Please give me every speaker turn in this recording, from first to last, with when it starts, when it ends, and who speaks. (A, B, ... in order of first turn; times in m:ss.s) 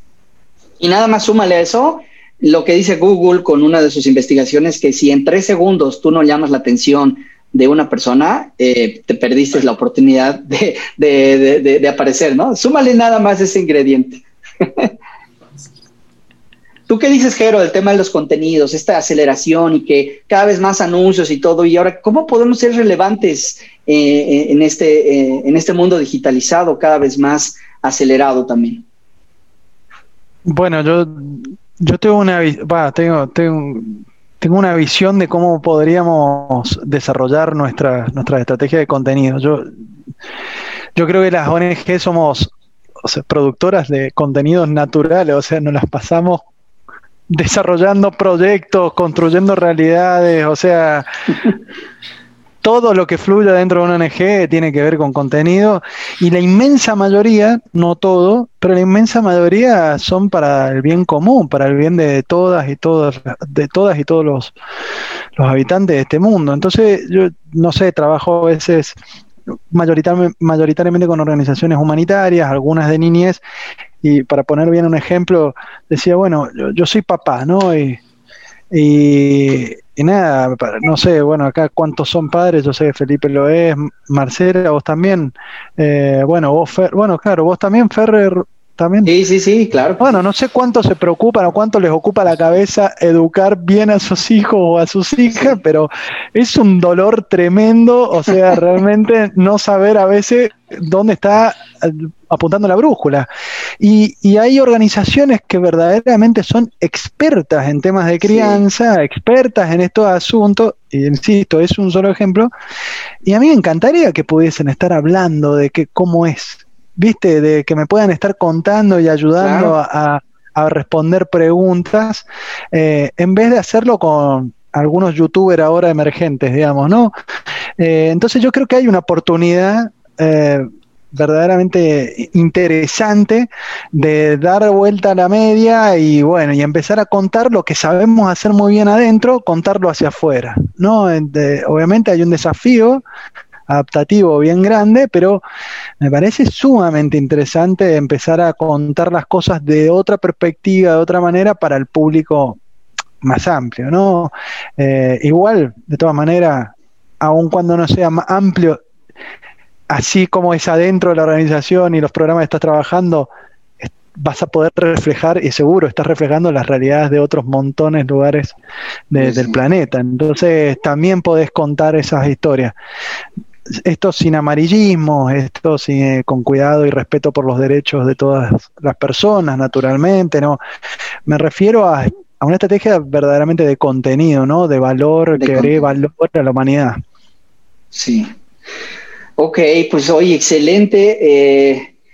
0:00.8-0:14.9 A
0:16.9-0:28.8 A
0:30.4-0:39.7 B
0:40.9-0:42.5 B
0:43.0-0:46.4 B
0:47.3-0:51.4 B
0:52.6-1:04.5 B
1:05.4-1:09.0 B
1:09.7-1:13.4 B
1:14.0-1:18.0 B
1:18.7-1:29.1 B
1:29.0-1:30.1 A
1:30.0-1:43.3 B
1:43.8-1:52.5 B
1:48.2-1:48.6 A
1:53.2-2:07.1 B
1:59.4-1:59.8 A
2:07.8-2:23.0 B
2:23.7-2:25.4 B
2:26.0-2:32.6 B
2:33.2-2:38.8 B
2:39.9-2:48.6 B
2:49.1-2:52.7 B
2:49.2-2:49.6 A
2:53.7-3:00.6 B
3:01.3-3:07.0 B
3:05.4-3:05.8 A
3:07.9-3:08.3 A
3:09.4-3:11.9 A